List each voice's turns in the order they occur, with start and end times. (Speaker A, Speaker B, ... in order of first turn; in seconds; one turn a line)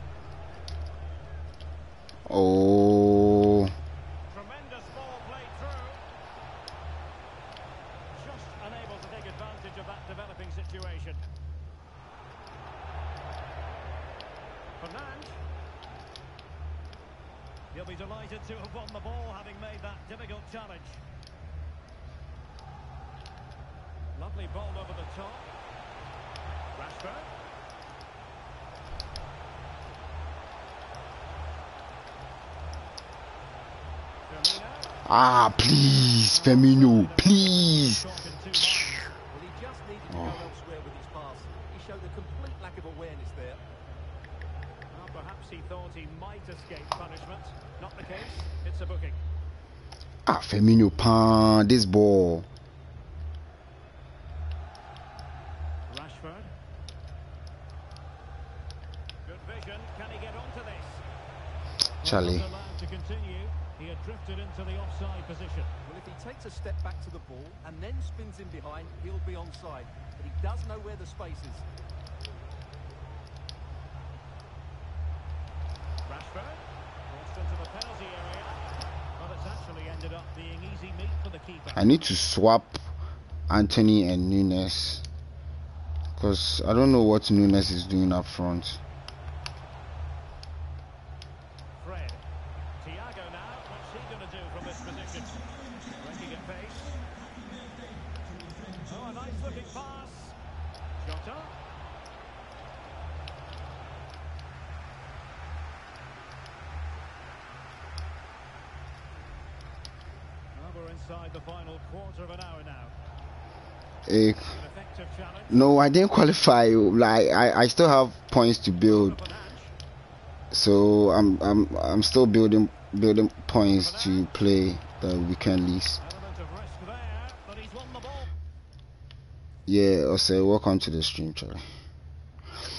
Speaker A: 2.3-3.7
Speaker B: 4.3-6.0
Speaker B: 8.1-11.2
Speaker B: 14.8-15.4
Speaker B: 17.7-21.0
Speaker B: 24.1-25.5
Speaker B: 26.7-27.3
Speaker B: 34.3-34.9
Speaker A: 35.0-38.0
Speaker B: 36.3-39.1
Speaker C: 39.3-43.6
Speaker A: 40.1-40.4
Speaker B: 44.9-49.2
Speaker A: 50.2-52.5
Speaker B: 55.9-56.5
Speaker B: 59.2-61.0
Speaker B: 62.0-65.7
Speaker A: 62.0-62.5
Speaker C: 65.8-71.6
Speaker B: 76.0-81.9
Speaker A: 81.7-82.8
Speaker A: 83.5-85.0
Speaker A: 86.2-88.8
Speaker B: 91.8-92.2
Speaker B: 92.8-97.0
Speaker B: 98.8-100.3
Speaker B: 101.0-101.5
Speaker B: 110.5-112.9
Speaker A: 114.0-114.6
Speaker B: 114.5-115.7
Speaker A: 115.5-119.2
Speaker B: 118.8-119.7
Speaker A: 120.5-126.0
Speaker B: 123.7-124.3
Speaker B: 126.0-128.3
Speaker A: 129.7-131.6